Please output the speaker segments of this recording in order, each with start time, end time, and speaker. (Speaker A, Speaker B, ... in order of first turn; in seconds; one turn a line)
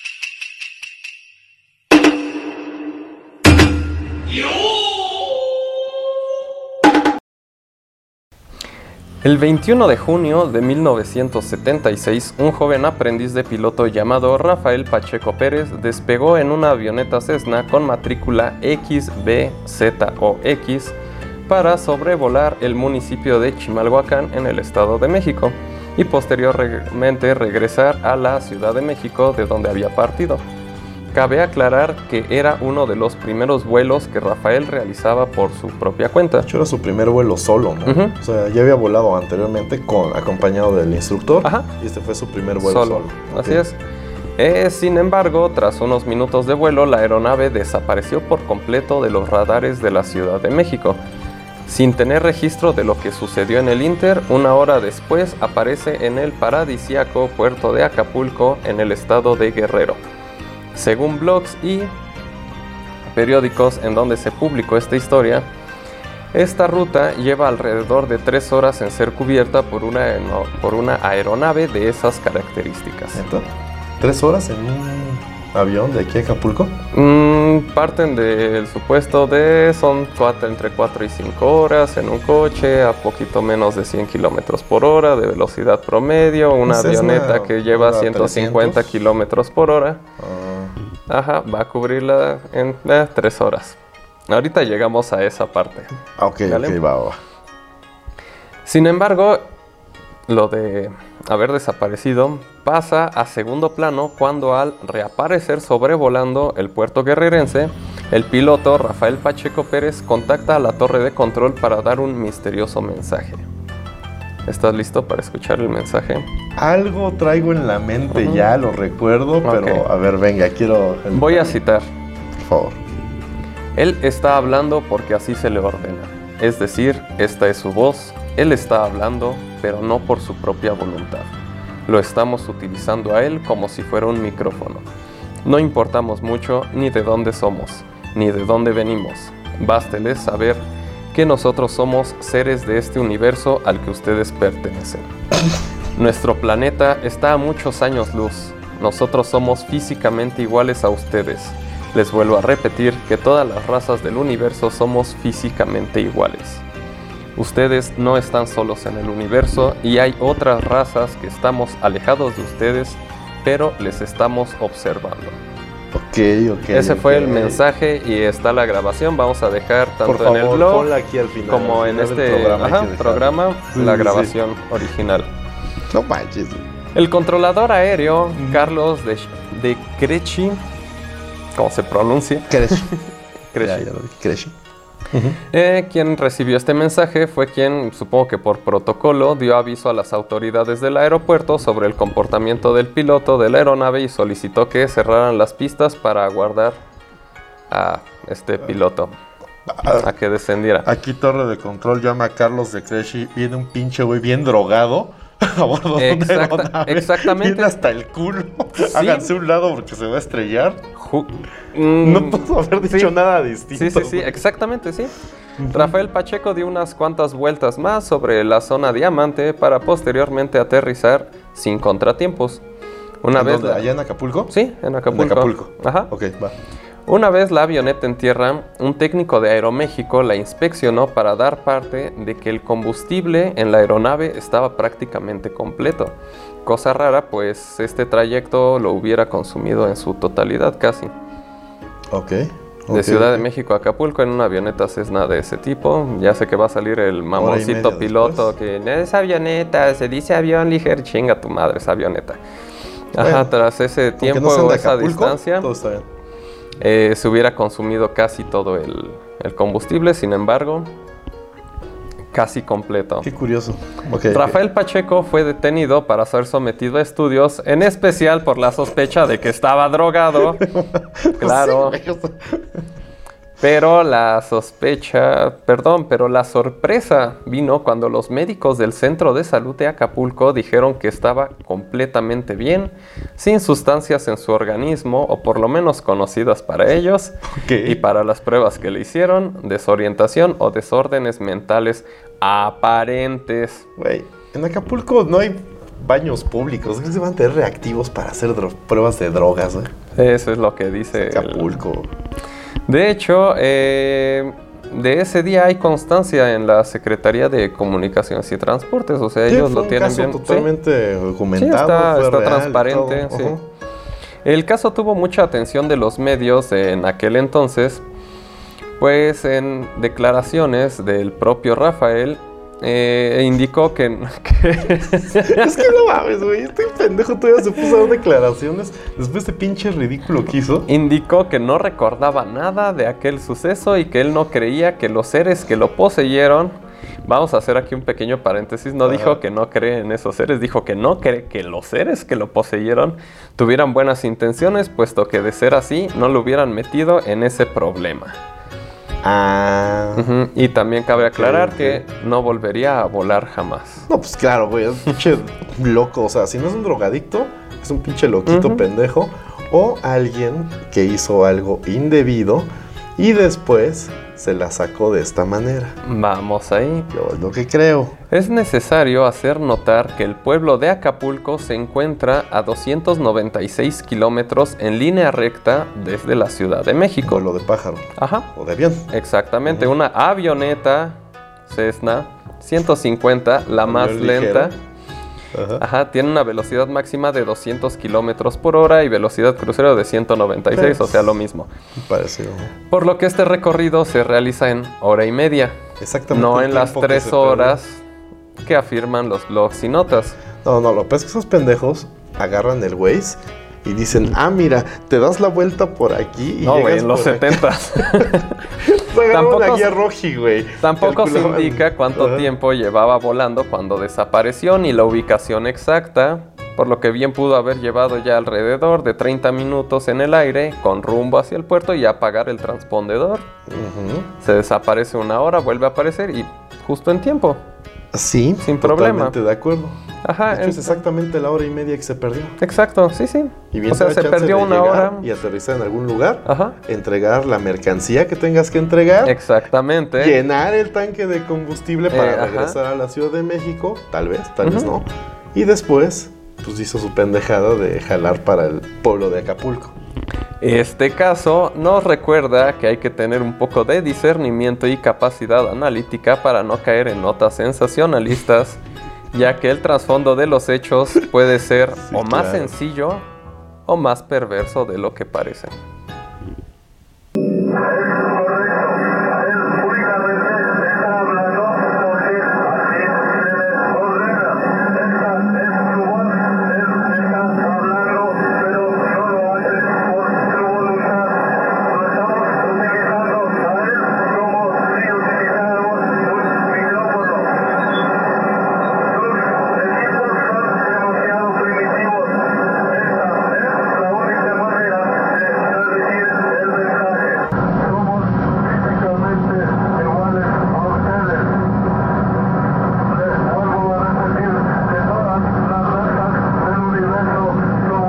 Speaker A: 9.2-21.0
Speaker A: 21.5-30.4
Speaker A: 31.1-36.5
Speaker B: 36.5-43.6
Speaker A: 37.9-38.2
Speaker A: 41.4-41.7
Speaker A: 42.6-43.8
Speaker A: 44.4-51.0
Speaker A: 51.7-60.0
Speaker A: 60.7-61.9
Speaker A: 63.1-65.5
Speaker A: 66.3-73.2
Speaker B: 73.1-73.5
Speaker B: 74.0-76.8
Speaker A: 76.9-90.0
Speaker B: 86.7-88.9
Speaker B: 90.2-90.7
Speaker A: 91.1-93.8
Speaker A: 94.3-95.9
Speaker B: 96.2-97.2
Speaker A: 96.5-96.8
Speaker A: 98.7-99.4
Speaker A: 100.3-113.5
Speaker A: 114.5-116.3
Speaker B: 116.6-121.6
Speaker A: 118.1-118.5
Speaker A: 119.4-119.9
Speaker A: 121.1-121.9
Speaker B: 122.4-122.8
Speaker A: 123.8-131.3
Speaker A: 131.9-134.9
Speaker A: 135.4-145.1
Speaker A: 145.9-156.6
Speaker A: 157.4-165.4
Speaker B: 165.9-167.6
Speaker A: 166.7-170.9
Speaker B: 170.0-174.3
Speaker A: 171.5-175.3
Speaker B: 175.9-176.7
Speaker A: 176.9-180.6
Speaker B: 178.4-178.7
Speaker A: 181.6-183.9
Speaker B: 182.5-182.9
Speaker B: 183.6-184.5
Speaker B: 185.1-185.4
Speaker A: 185.5-196.8
Speaker A: 197.7-199.1
Speaker B: 199.7-200.1
Speaker A: 200.0-200.9
Speaker B: 200.8-210.8
Speaker A: 206.0-207.8
Speaker A: 208.8-209.3
Speaker A: 211.0-213.2
Speaker B: 212.0-214.4
Speaker A: 213.8-215.1
Speaker B: 215.6-215.9
Speaker A: 215.7-222.6
Speaker A: 223.2-223.9
Speaker B: 223.3-224.5
Speaker A: 224.5-226.1
Speaker B: 225.1-226.5
Speaker A: 227.1-236.1
Speaker A: 236.7-241.1
Speaker B: 242.1-243.4
Speaker A: 242.9-252.4
Speaker B: 247.3-248.5
Speaker A: 253.1-255.7
Speaker B: 253.2-253.5
Speaker B: 254.2-256.0
Speaker A: 256.8-260.9
Speaker A: 262.3-263.3
Speaker B: 263.2-264.6
Speaker A: 264.3-270.6
Speaker B: 270.5-272.6
Speaker A: 271.4-272.0
Speaker A: 273.6-293.9
Speaker B: 287.5-288.0
Speaker B: 294.0-299.9
Speaker A: 300.2-301.8
Speaker B: 301.1-302.1
Speaker A: 302.9-310.7
Speaker B: 309.5-313.6
Speaker A: 311.6-313.6
Speaker A: 314.4-318.0
Speaker A: 319.0-325.9
Speaker B: 325.4-330.9
Speaker A: 330.9-348.4
Speaker B: 339.1-339.4
Speaker B: 349.2-350.3
Speaker A: 350.2-354.1
Speaker B: 351.2-352.0
Speaker B: 354.1-366.0
Speaker A: 358.5-358.9
Speaker A: 366.0-367.1
Speaker B: 367.1-368.1
Speaker A: 368.3-377.4
Speaker B: 377.2-379.1
Speaker A: 378.2-378.5
Speaker A: 379.1-381.1
Speaker B: 379.7-379.9
Speaker A: 381.7-384.7
Speaker B: 383.8-384.7
Speaker B: 385.5-385.8
Speaker A: 385.8-391.7
Speaker B: 390.7-391.2
Speaker B: 392.0-392.7
Speaker A: 392.9-395.8
Speaker B: 396.0-397.8
Speaker A: 396.3-398.0
Speaker A: 398.6-400.4
Speaker B: 400.6-408.3
Speaker A: 406.6-408.6
Speaker B: 408.8-412.5
Speaker A: 409.3-410.0
Speaker A: 410.8-423.4
Speaker B: 423.7-424.3
Speaker A: 424.4-427.6
Speaker B: 428.1-430.0
Speaker A: 428.6-429.4
Speaker A: 430.2-431.0
Speaker B: 430.5-432.6
Speaker A: 432.6-435.3
Speaker B: 433.7-439.4
Speaker A: 436.5-436.8
Speaker A: 439.2-440.4
Speaker B: 440.2-449.9
Speaker A: 442.1-442.8
Speaker A: 444.6-444.9
Speaker A: 450.6-458.8
Speaker A: 459.3-463.2
Speaker B: 462.0-462.7
Speaker A: 463.9-465.7
Speaker A: 468.2-468.9
Speaker A: 469.7-481.1
Speaker A: 482.2-487.2
Speaker A: 490.0-492.3
Speaker A: 493.1-497.4
Speaker A: 498.9-500.7
Speaker A: 503.6-504.8
Speaker A: 506.9-507.2